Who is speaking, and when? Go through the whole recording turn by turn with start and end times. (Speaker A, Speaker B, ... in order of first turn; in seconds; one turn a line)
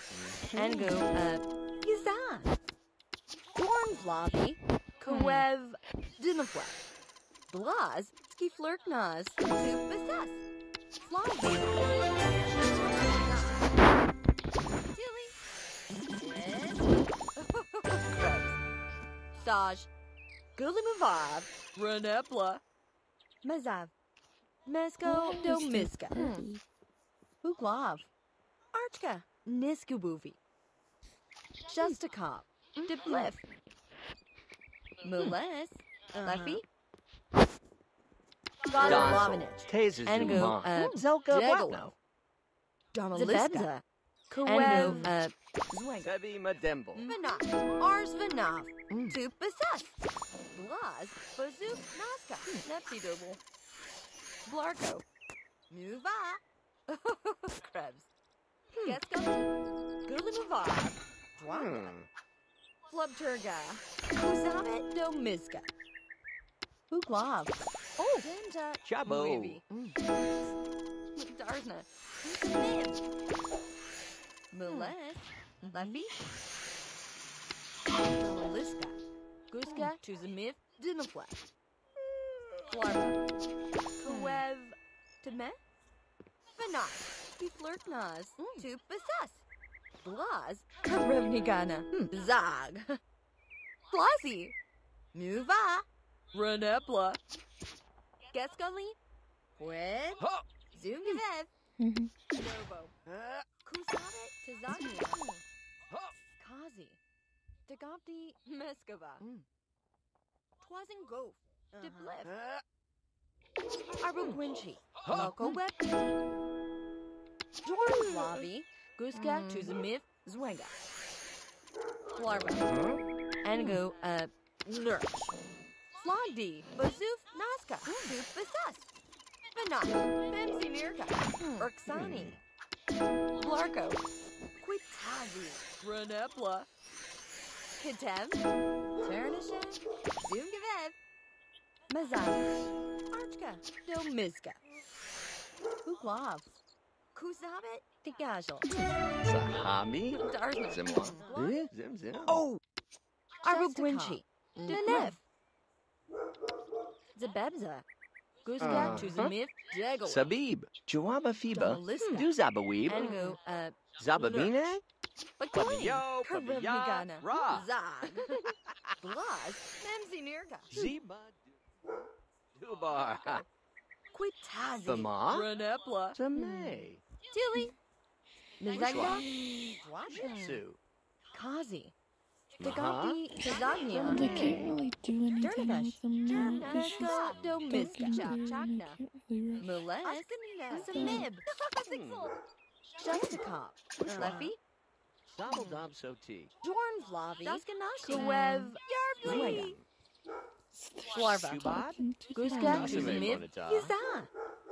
Speaker A: 0.1-1.0
Speaker B: 0.5-2.5
Speaker B: 3.5-6.8
Speaker B: 7.5-10.4
Speaker B: 11.1-11.7
Speaker B: 13.3-13.6
Speaker B: 14.9-15.3
Speaker B: 16.2-16.9
Speaker B: 17.4-18.6
Speaker B: 19.4-19.9
Speaker B: 20.6-22.6
Speaker B: 23.4-23.9
Speaker B: 24.7-26.4
Speaker C: 25.0-26.6
Speaker B: 27.4-28.1
Speaker B: 28.7-30.4
Speaker B: 31.7-33.4
Speaker B: 35.0-36.6
Speaker B: 38.7-41.9
Speaker A: 38.8-41.9
Speaker B: 43.0-46.1
Speaker A: 46.0-47.1
Speaker B: 47.0-50.0
Speaker B: 50.5-53.4
Speaker B: 54.5-55.0
Speaker B: 55.7-58.1
Speaker B: 58.8-59.5
Speaker B: 60.1-61.9
Speaker A: 61.5-62.1
Speaker B: 62.9-65.7
Speaker B: 66.9-69.9
Speaker A: 68.8-69.6
Speaker B: 71.2-73.0
Speaker B: 74.6-76.2
Speaker B: 78.2-79.0
Speaker B: 79.5-81.4
Speaker A: 82.3-82.7
Speaker B: 82.7-83.2
Speaker B: 84.0-85.6
Speaker B: 86.5-89.4
Speaker B: 90.0-93.0
Speaker B: 93.9-94.5
Speaker B: 95.2-97.2
Speaker B: 98.3-99.0
Speaker B: 99.6-100.2
Speaker A: 100.2-100.5
Speaker B: 100.8-101.5
Speaker C: 101.8-102.3
Speaker B: 102.3-102.9
Speaker A: 103.1-103.5
Speaker B: 103.7-105.4
Speaker B: 106.4-107.0
Speaker B: 107.7-109.5
Speaker B: 110.6-112.4
Speaker B: 114.0-116.2
Speaker A: 115.0-115.4
Speaker B: 117.7-120.7
Speaker B: 122.2-122.7
Speaker A: 122.2-123.0
Speaker B: 123.4-125.3
Speaker B: 126.0-128.9
Speaker B: 129.5-132.3
Speaker A: 131.9-132.4
Speaker B: 133.4-134.0
Speaker B: 134.6-136.7
Speaker B: 137.8-138.4
Speaker B: 139.0-140.9
Speaker B: 141.9-142.5
Speaker B: 143.1-144.6
Speaker B: 145.9-146.5
Speaker B: 147.2-148.9
Speaker A: 149.2-152.4
Speaker B: 150.1-151.7
Speaker B: 152.3-152.6
Speaker B: 153.4-155.2
Speaker B: 157.2-157.8
Speaker B: 158.4-160.2
Speaker A: 158.6-159.3
Speaker A: 160.1-163.3
Speaker B: 161.5-162.3
Speaker B: 162.9-164.6
Speaker A: 164.0-164.8
Speaker B: 165.4-170.8
Speaker A: 165.5-167.7
Speaker A: 168.7-169.0
Speaker A: 170.7-171.6
Speaker A: 172.6-173.5
Speaker B: 174.1-176.2
Speaker A: 174.8-175.5
Speaker A: 176.1-177.0
Speaker B: 177.3-177.7
Speaker B: 178.6-179.3
Speaker A: 178.7-180.8
Speaker B: 179.8-180.6
Speaker B: 181.3-181.9
Speaker B: 182.5-184.6
Speaker A: 182.6-183.3
Speaker C: 183.4-189.9
Speaker A: 184.0-184.8
Speaker B: 185.4-189.0
Speaker A: 186.8-187.7
Speaker B: 189.6-192.3
Speaker C: 190.8-191.3
Speaker A: 191.8-192.4
Speaker B: 193.0-194.6
Speaker A: 194.0-194.5
Speaker A: 195.3-196.5
Speaker B: 196.6-199.8
Speaker A: 199.2-199.8
Speaker C: 200.7-203.4
Speaker A: 201.1-202.0
Speaker B: 201.2-201.7
Speaker B: 202.4-204.3
Speaker A: 202.6-203.9